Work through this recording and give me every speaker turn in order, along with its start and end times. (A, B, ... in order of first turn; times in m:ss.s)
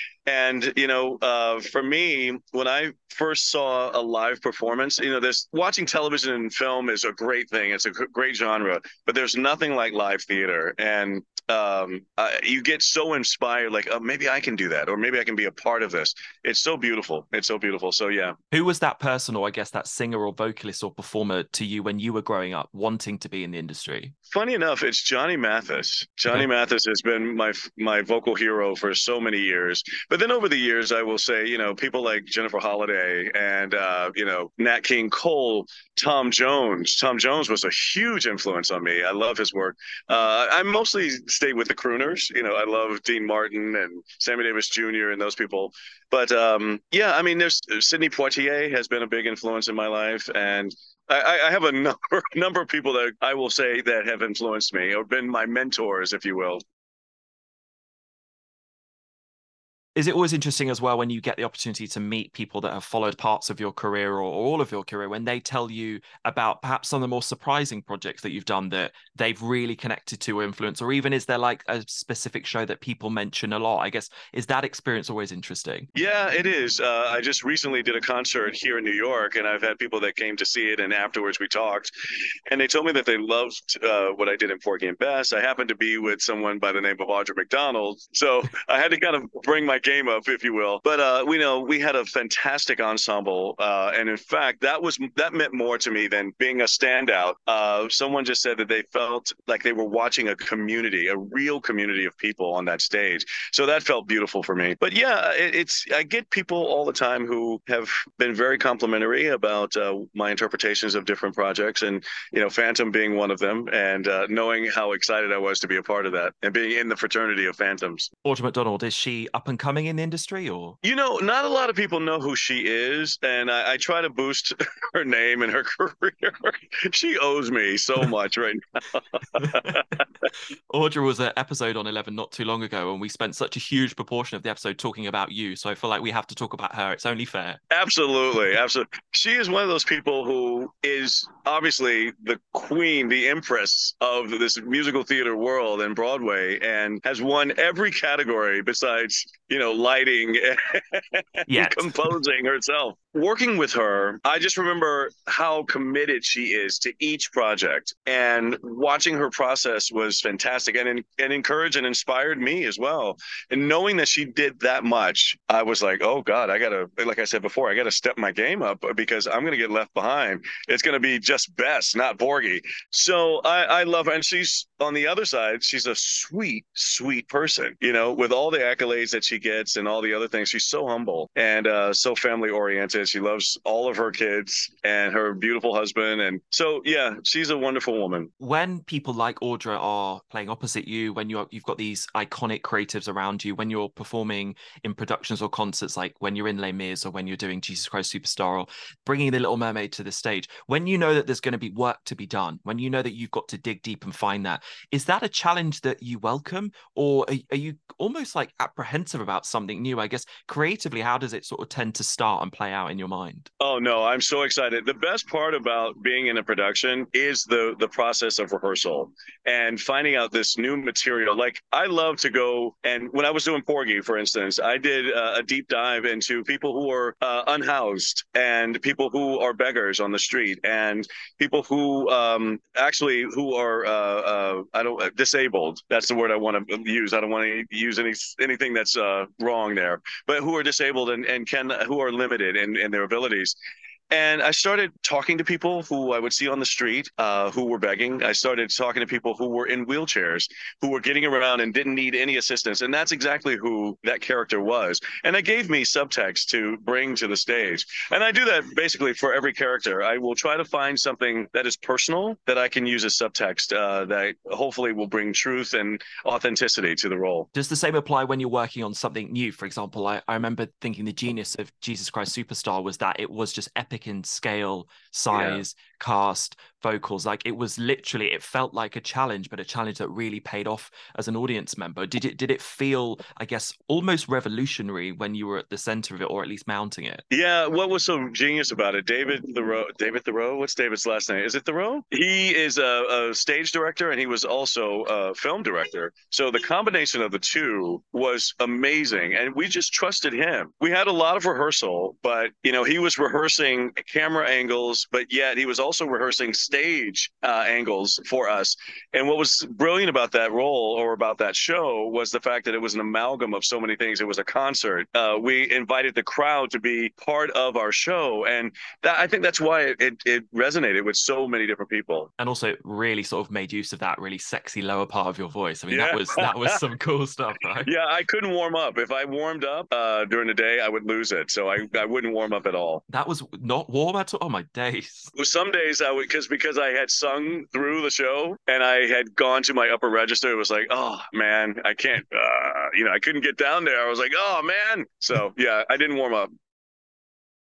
0:00.2-0:18.4 A
0:18.5-0:24.1 B
0:24.3-0:56.6 A
1:00.0-1:15.9 B
1:16.0-1:21.9 A
1:22.5-1:58.1 A
1:58.2-2:00.8 B
2:00.8-2:09.8 A
2:09.4-2:09.8 B
2:10.7-2:17.6 B
2:17.7-3:08.3 A
2:31.5-2:32.1 B
3:08.4-3:33.5 B
3:33.6-4:03.6 A
4:04.1-4:27.5 A
4:27.5-4:47.2 B
4:35.3-4:35.6 A
4:47.3-5:22.3 A
5:22.4-5:27.9 B
5:25.9-5:26.8 A
5:27.8-5:33.0 A
5:33.1-5:35.3 B
5:35.3-5:46.5 A